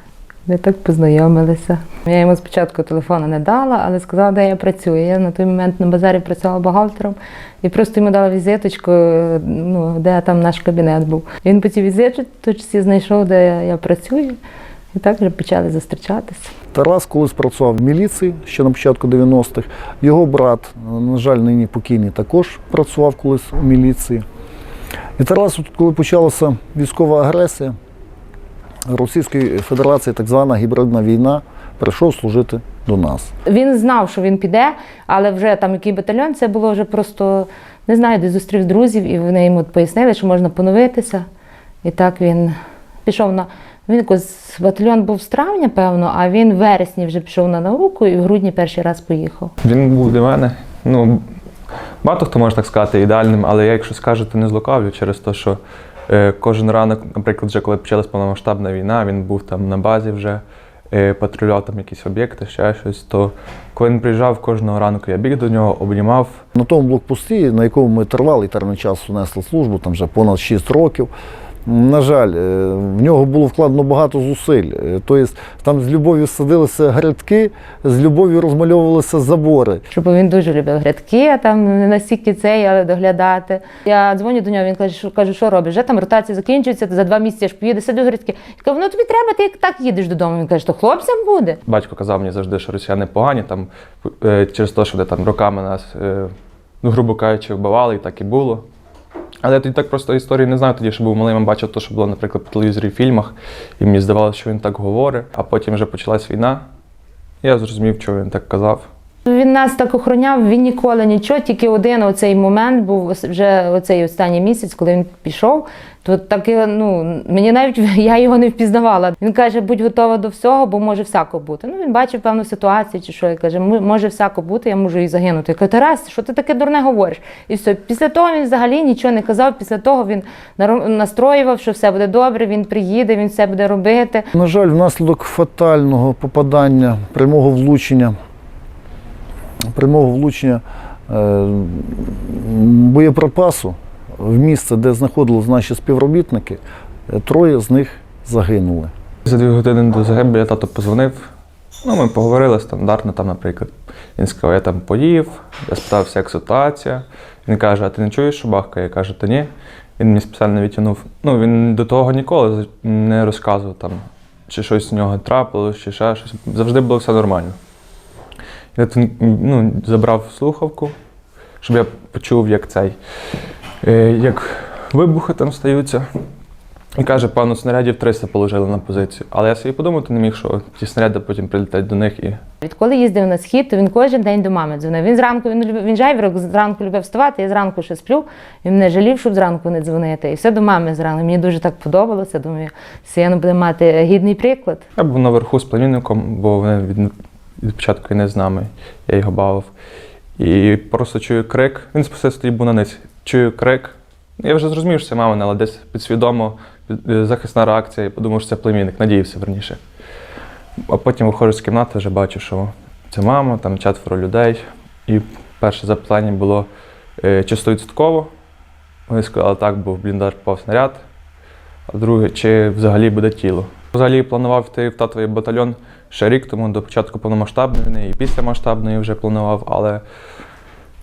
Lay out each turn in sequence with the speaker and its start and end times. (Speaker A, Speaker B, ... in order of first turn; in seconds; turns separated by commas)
Speaker A: 0.5-14.4, Speaker A: 14.9-16.5, Speaker B: 16.7-24.2, Speaker B: 25.2-27.7, Speaker B: 28.9-33.3, Speaker A: 33.5-41.2, Speaker A: 41.8-49.5, Speaker C: 49.6-51.2, Speaker C: 52.0-66.4, Speaker B: 66.5-71.1, Speaker B: 71.7-79.8, Speaker A: 79.9-91.6, Speaker C: 91.7-96.3, Speaker C: 96.8-98.7, Speaker C: 99.4-106.6, Speaker C: 107.4-108.9, Speaker A: 109.3-134.2, Speaker B: 134.3-138.1, Speaker B: 139.7-148.9, Speaker C: 149.2-151.3, Speaker C: 151.8-167.6, Speaker C: 168.8-170.9, Speaker C: 171.6-173.0, Speaker C: 173.8-176.1, Speaker C: 177.0-182.4, Speaker A: 182.6-194.9, Speaker C: 195.0-199.7, Speaker C: 200.4-209.8, Speaker C: 210.8-216.7, Speaker C: 217.2-218.3, Speaker C: 219.1-221.0, Speaker C: 221.9-230.0